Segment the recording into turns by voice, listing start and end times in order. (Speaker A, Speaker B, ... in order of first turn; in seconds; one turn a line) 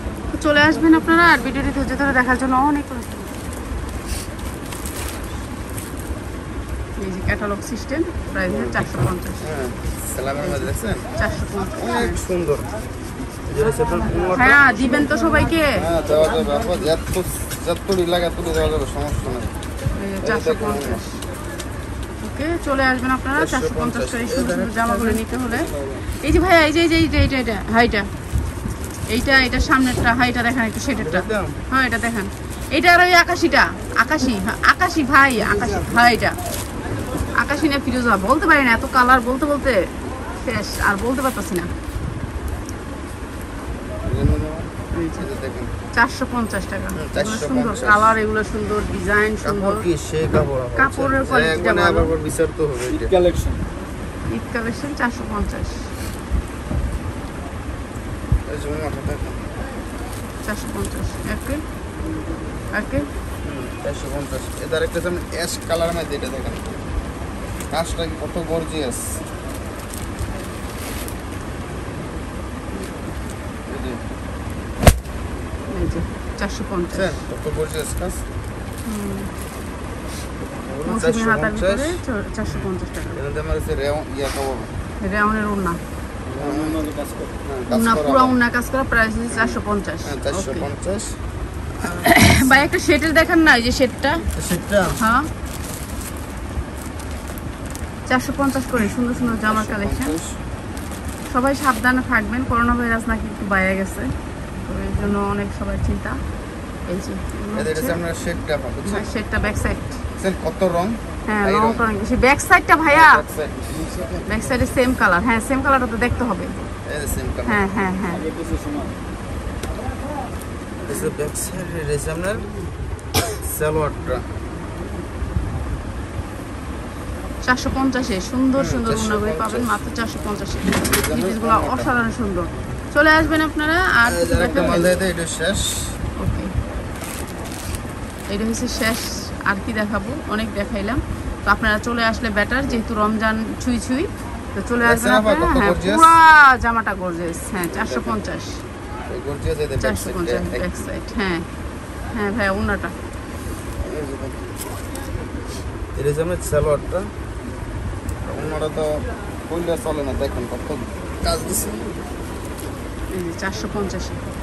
Speaker A: 0.3-3.3
Speaker A: 7.0-9.4
Speaker B: 8.4-11.1
Speaker A: 10.4-12.2
Speaker B: 11.8-12.7
Speaker B: 13.5-15.2
Speaker A: 14.3-15.8
Speaker B: 15.8-19.5
Speaker A: 20.0-21.2
Speaker B: 20.2-21.0
Speaker A: 22.2-25.7
Speaker B: 23.3-26.1
Speaker A: 26.2-28.1
Speaker A: 29.1-36.4
Speaker B: 30.9-31.6
Speaker B: 35.4-36.1
Speaker A: 37.3-41.7
Speaker B: 44.0-45.7
Speaker A: 44.9-45.2
Speaker A: 45.9-49.8
Speaker B: 46.9-48.1
Speaker B: 49.4-53.2
Speaker A: 50.8-52.1
Speaker C: 52.9-53.6
Speaker A: 54.3-55.9
Speaker B: 58.5-59.4
Speaker A: 60.4-61.6
Speaker A: 62.7-63.1
Speaker B: 63.4-66.8
Speaker B: 67.7-69.2
Speaker B: 73.7-74.0
Speaker A: 75.7-77.2
Speaker B: 76.9-78.2
Speaker A: 78.8-79.3
Speaker B: 80.5-82.0
Speaker A: 80.8-83.2
Speaker B: 83.1-84.7
Speaker A: 85.0-85.8
Speaker C: 86.3-87.3
Speaker B: 86.4-86.9
Speaker B: 87.4-88.3
Speaker A: 87.7-90.7
Speaker B: 89.3-91.2
Speaker B: 91.8-92.7
Speaker A: 92.0-94.2
Speaker B: 94.3-95.0
Speaker A: 95.0-95.3
Speaker A: 98.1-100.1
Speaker B: 99.4-100.4
Speaker A: 101.3-106.2
Speaker A: 106.9-108.0
Speaker B: 107.5-109.0
Speaker A: 108.8-110.0
Speaker B: 110.2-111.8
Speaker A: 111.3-113.2
Speaker B: 112.9-114.3
Speaker A: 114.3-116.6
Speaker B: 116.8-117.6
Speaker A: 117.5-118.2
Speaker C: 118.1-119.0
Speaker B: 120.8-122.5
Speaker B: 123.4-124.2
Speaker A: 127.4-134.9
Speaker B: 128.6-129.8
Speaker B: 130.8-131.9
Speaker B: 134.1-136.0
Speaker A: 136.2-136.5
Speaker A: 138.3-148.6
Speaker B: 144.8-146.1
Speaker B: 147.7-148.2
Speaker B: 149.1-150.8
Speaker A: 149.8-151.4
Speaker A: 152.1-152.9
Speaker B: 153.8-154.5
Speaker B: 155.9-157.1
Speaker B: 158.2-161.8
Speaker A: 163.1-164.2